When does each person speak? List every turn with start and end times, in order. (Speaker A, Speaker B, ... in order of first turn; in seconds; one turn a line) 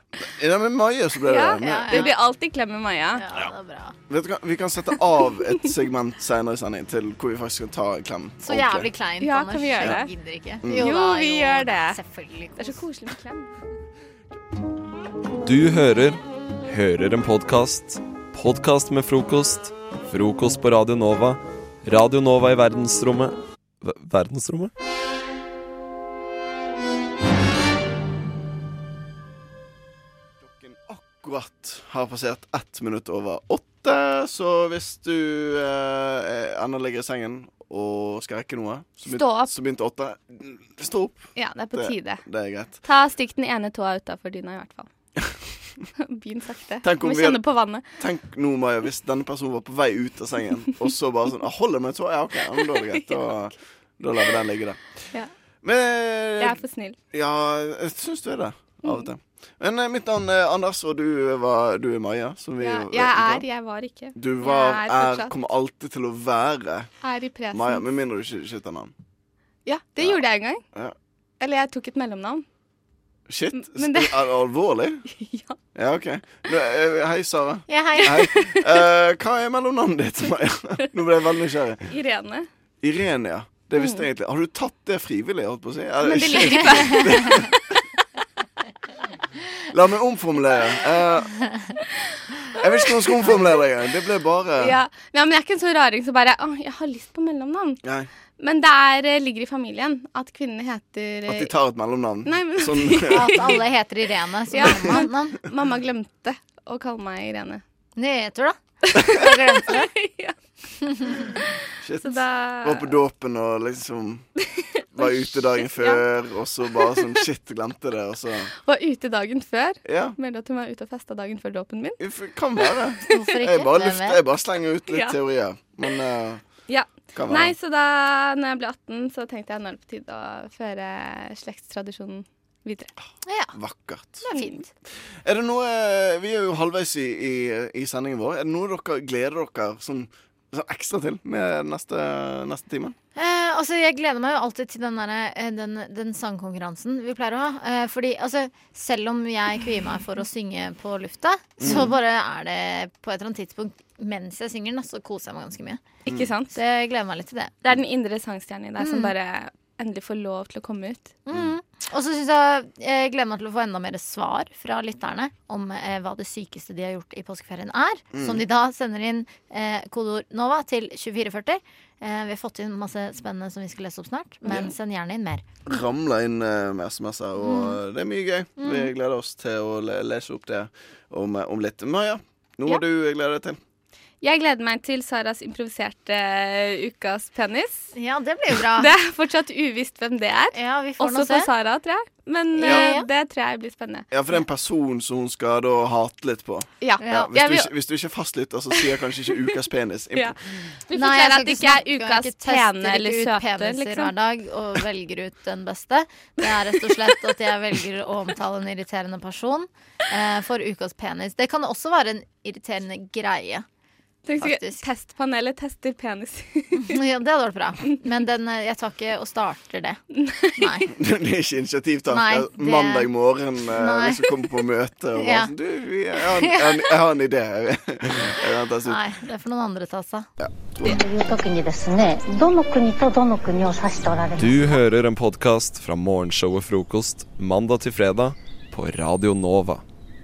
Speaker A: 0.2-2.1
Speaker B: 1.3-3.2
Speaker C: 1.6-2.1
Speaker C: 3.1-4.0
Speaker A: 4.1-8.9
Speaker C: 8.4-12.8
Speaker B: 9.2-10.1
Speaker A: 10.6-10.9
Speaker B: 10.7-12.0
Speaker B: 12.6-13.5
Speaker D: 15.4-24.7
Speaker A: 30.4-42.8
Speaker B: 39.1-39.5
Speaker B: 41.4-42.2
Speaker B: 42.9-44.9
Speaker B: 46.0-47.9
Speaker A: 46.8-54.8
Speaker B: 52.9-53.2
Speaker A: 55.6-63.5
Speaker B: 56.4-57.0
Speaker B: 62.6-65.3
Speaker A: 64.2-66.9
Speaker B: 67.0-67.8
Speaker A: 67.5-68.9
Speaker B: 69.7-70.6
Speaker B: 71.4-72.5
Speaker A: 73.3-75.0
Speaker B: 73.6-74.3
Speaker B: 75.1-75.6
Speaker A: 75.8-81.9
Speaker C: 77.7-78.4
Speaker B: 78.2-78.6
Speaker B: 81.9-82.5
Speaker A: 82.8-87.5
Speaker B: 83.8-84.0
Speaker B: 86.0-87.5
Speaker A: 89.7-91.3
Speaker A: 92.6-94.8
Speaker B: 94.6-97.8
Speaker A: 97.8-98.1
Speaker B: 98.4-101.5
Speaker A: 101.3-103.6
Speaker B: 102.2-103.6
Speaker C: 103.1-105.4
Speaker B: 104.5-107.6
Speaker C: 108.0-109.9
Speaker B: 108.9-110.4
Speaker B: 111.0-112.9
Speaker A: 111.8-114.3
Speaker B: 114.4-116.0
Speaker A: 115.0-118.5
Speaker B: 118.6-122.0
Speaker A: 119.8-120.2
Speaker A: 122.0-126.4
Speaker B: 122.7-123.2
Speaker C: 123.1-124.2
Speaker B: 124.9-125.2
Speaker B: 126.7-132.9
Speaker A: 127.1-127.5
Speaker C: 133.3-133.6
Speaker A: 133.5-134.3
Speaker B: 134.2-134.6
Speaker C: 134.3-134.7
Speaker A: 135.2-143.0
Speaker C: 143.2-155.8
Speaker A: 151.6-152.0
Speaker B: 156.1-156.6
Speaker C: 156.5-157.5
Speaker B: 157.6-161.2
Speaker C: 158.8-159.1
Speaker C: 161.3-175.5
Speaker A: 168.1-168.4
Speaker A: 175.7-183.6
Speaker C: 177.4-177.8
Speaker C: 178.6-178.9
Speaker B: 184.2-187.9
Speaker C: 187.9-188.9
Speaker B: 188.7-194.1
Speaker C: 190.5-191.5
Speaker C: 192.6-193.1
Speaker A: 192.6-192.9
Speaker A: 194.1-200.4
Speaker B: 196.8-197.7
Speaker C: 197.0-197.3
Speaker B: 200.1-204.1
Speaker C: 200.9-213.7
Speaker B: 214.2-216.9
Speaker C: 214.4-214.9
Speaker C: 216.8-220.0
Speaker B: 220.2-220.8
Speaker C: 220.6-220.9
Speaker A: 220.9-229.0
Speaker C: 222.1-223.1
Speaker C: 223.7-224.6
Speaker C: 225.2-225.5
Speaker C: 226.2-226.9
Speaker C: 228.8-230.3
Speaker A: 230.4-231.0
Speaker E: 230.8-234.8
Speaker D: 234.4-239.8